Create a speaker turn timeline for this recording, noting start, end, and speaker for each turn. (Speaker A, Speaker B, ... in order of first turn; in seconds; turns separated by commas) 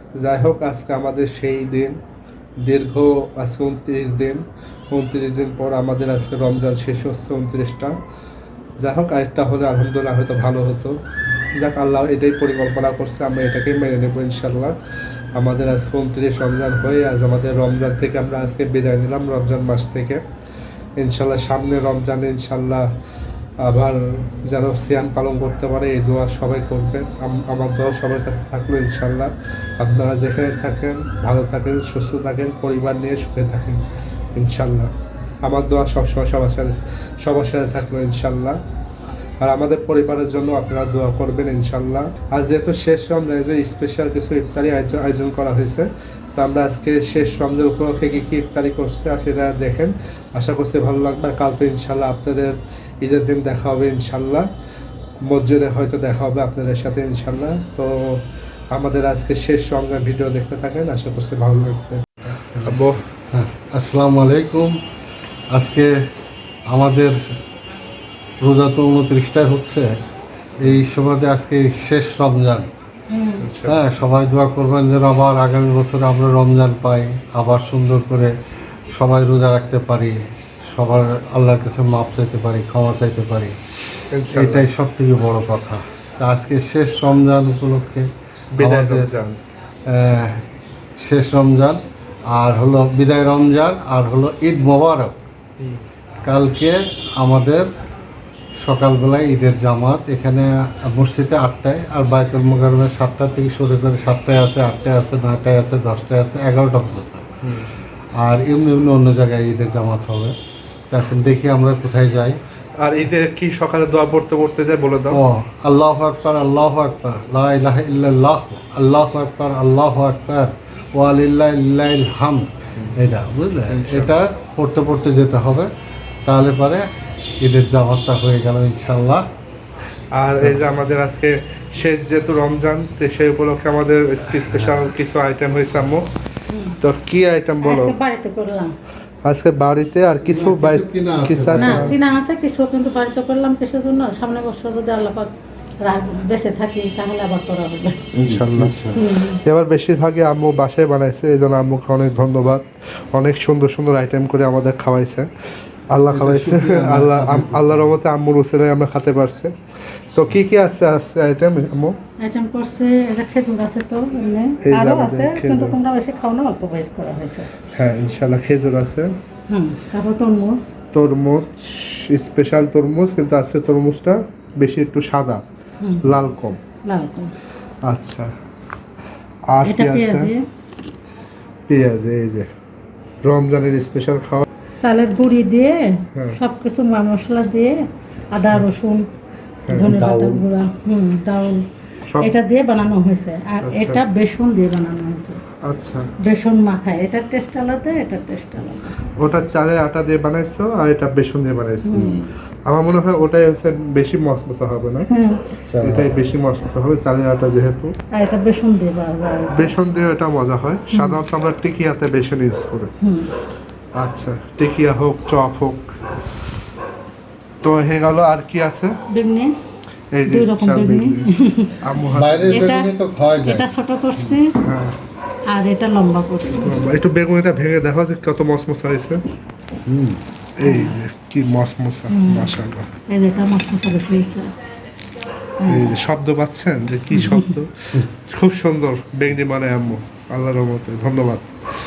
Speaker A: 0.2-2.0, Speaker A: 2.6-7.9, Speaker A: 8.8-11.0, Speaker A: 11.6-14.7, Speaker A: 15.3-20.2, Speaker A: 21.0-22.9, Speaker A: 23.6-33.8, Speaker A: 34.3-38.6, Speaker A: 39.4-54.5, Speaker A: 55.2-63.0, Speaker B: 62.5-64.8, Speaker B: 65.5-66.0, Speaker B: 66.7-67.2, Speaker B: 68.4-69.9, Speaker B: 70.6-72.7, Speaker C: 73.1-73.4, Speaker A: 73.4-73.8, Speaker B: 73.7-78.3, Speaker B: 78.9-80.2, Speaker B: 80.7-83.5, Speaker A: 84.1-84.7, Speaker B: 84.3-88.1, Speaker A: 88.5-89.4, Speaker B: 88.6-89.1, Speaker B: 89.9-90.4, Speaker B: 91.0-95.2, Speaker B: 96.2-97.7, Speaker B: 98.6-107.3, Speaker A: 107.4-107.7, Speaker B: 108.2-110.3, Speaker B: 110.9-112.4, Speaker A: 112.8-115.2, Speaker B: 115.1-125.7, Speaker A: 123.7-124.1, Speaker B: 126.2-126.8, Speaker B: 127.4-129.2, Speaker A: 130.1-136.1, Speaker B: 130.4-130.6, Speaker B: 134.4-134.9, Speaker C: 136.5-136.8, Speaker A: 136.8-137.9, Speaker C: 137.6-138.7, Speaker A: 139.2-141.9, Speaker B: 140.2-142.0, Speaker C: 141.6-145.3, Speaker C: 145.8-148.0, Speaker A: 148.1-155.3, Speaker B: 148.2-149.1, Speaker C: 148.9-149.4, Speaker A: 155.9-159.5, Speaker B: 156.1-157.9, Speaker A: 160.1-161.9, Speaker C: 162.2-167.5, Speaker A: 164.6-165.8, Speaker A: 167.7-169.1, Speaker C: 169.5-170.7, Speaker A: 170.9-175.4, Speaker C: 175.8-176.2, Speaker A: 176.0-176.6, Speaker C: 176.8-177.3, Speaker A: 177.8-178.3, Speaker A: 179.5-180.3, Speaker C: 179.6-180.4, Speaker A: 181.7-182.5, Speaker A: 183.2-184.4, Speaker C: 184.8-189.1, Speaker A: 186.1-186.4, Speaker A: 189.7-189.9, Speaker C: 189.7-191.6, Speaker B: 189.8-190.4, Speaker A: 192.1-192.3, Speaker C: 192.2-195.4, Speaker A: 193.6-194.0, Speaker A: 195.6-196.1, Speaker C: 196.2-199.0, Speaker A: 199.2-205.1, Speaker C: 201.8-202.3, Speaker C: 205.1-205.5, Speaker B: 205.7-206.2, Speaker A: 205.8-207.9, Speaker C: 208.1-209.8, Speaker A: 209.5-212.9, Speaker C: 210.9-211.2, Speaker C: 213.0-213.3, Speaker A: 214.0-215.9, Speaker A: 217.6-218.9, Speaker C: 219.1-219.5, Speaker A: 220.1-222.7, Speaker C: 220.2-221.8, Speaker B: 222.1-223.7, Speaker C: 222.5-224.5, Speaker A: 224.5-225.0, Speaker C: 225.5-226.8, Speaker A: 226.5-229.2, Speaker B: 229.9-230.2, Speaker A: 230.6-232.9, Speaker C: 230.6-231.0, Speaker C: 232.1-232.6, Speaker C: 233.1-234.5, Speaker C: 235.6-236.0, Speaker A: 235.7-241.5, Speaker C: 237.1-237.5